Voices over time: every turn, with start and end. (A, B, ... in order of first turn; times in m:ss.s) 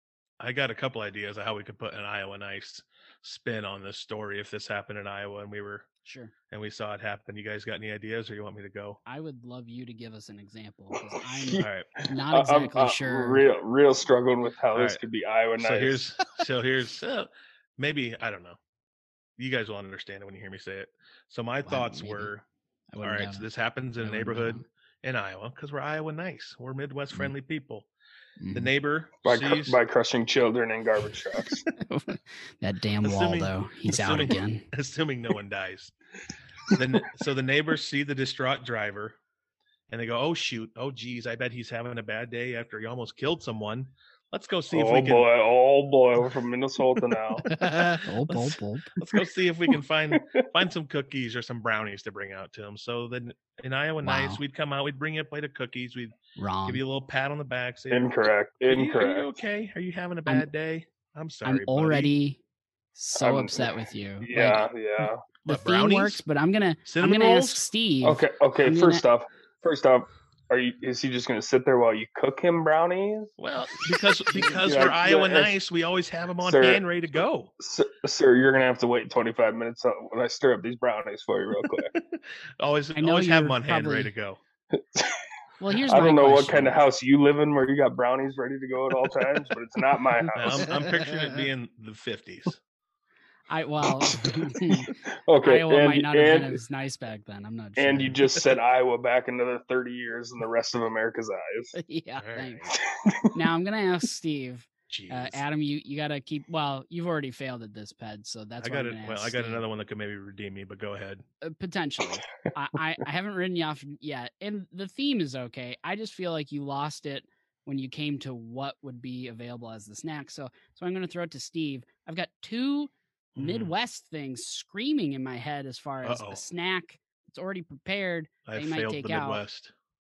0:00.4-0:05.9 A
0:06.0-0:06.3 B
0:06.5-0:09.0 A
0:09.0-0:13.5 B
0:11.0-0:11.6 C
0:11.6-0:11.9 A
0:12.3-0:16.1 C
0:14.8-0:15.0 A
0:15.6-0:18.6 A
0:19.4-0:22.4 A
0:21.6-0:22.3 B
0:22.9-0:23.4 B
0:23.0-0:27.9 A
0:24.0-0:24.6 B
0:28.4-0:28.7 B
0:28.5-0:29.8 A
0:29.2-0:31.6 C
0:31.8-0:34.7 B
0:33.0-0:35.9 A
0:36.7-0:39.2 A
0:39.9-0:45.3 A
0:44.7-0:47.5 C
0:47.5-0:48.9 B
0:47.5-0:56.1 A
0:50.2-0:50.4 C
0:54.0-0:54.4 B
0:56.4-0:56.8 B
0:56.6-0:58.1 A
0:57.9-0:59.3 C
0:58.7-1:02.1 A
1:01.4-1:02.4 B
1:03.0-1:09.0 B
1:03.2-1:05.2 C
1:05.4-1:06.2 A
1:06.8-1:07.7 A
1:08.0-1:13.3 C
1:13.4-1:17.5 A
1:14.4-1:15.5 C
1:16.4-1:16.8 C
1:17.6-1:21.9 C
1:21.9-1:24.4 A
1:23.0-1:24.1 B
1:24.7-1:25.2 C
1:25.6-1:26.8 B
1:25.9-1:30.7 C
1:30.4-1:32.6 A
1:30.5-1:31.1 B
1:33.5-1:38.2 B
1:34.0-1:36.6 C
1:37.8-1:41.7 C
1:41.8-1:42.8 B
1:42.2-1:42.7 A
1:42.8-1:43.3 C
1:43.3-1:49.6 B
1:44.9-1:45.4 A
1:48.6-1:51.2 A
1:51.4-2:09.4 B
2:03.4-2:03.7 A
2:06.0-2:06.4 A
2:08.5-2:09.7 A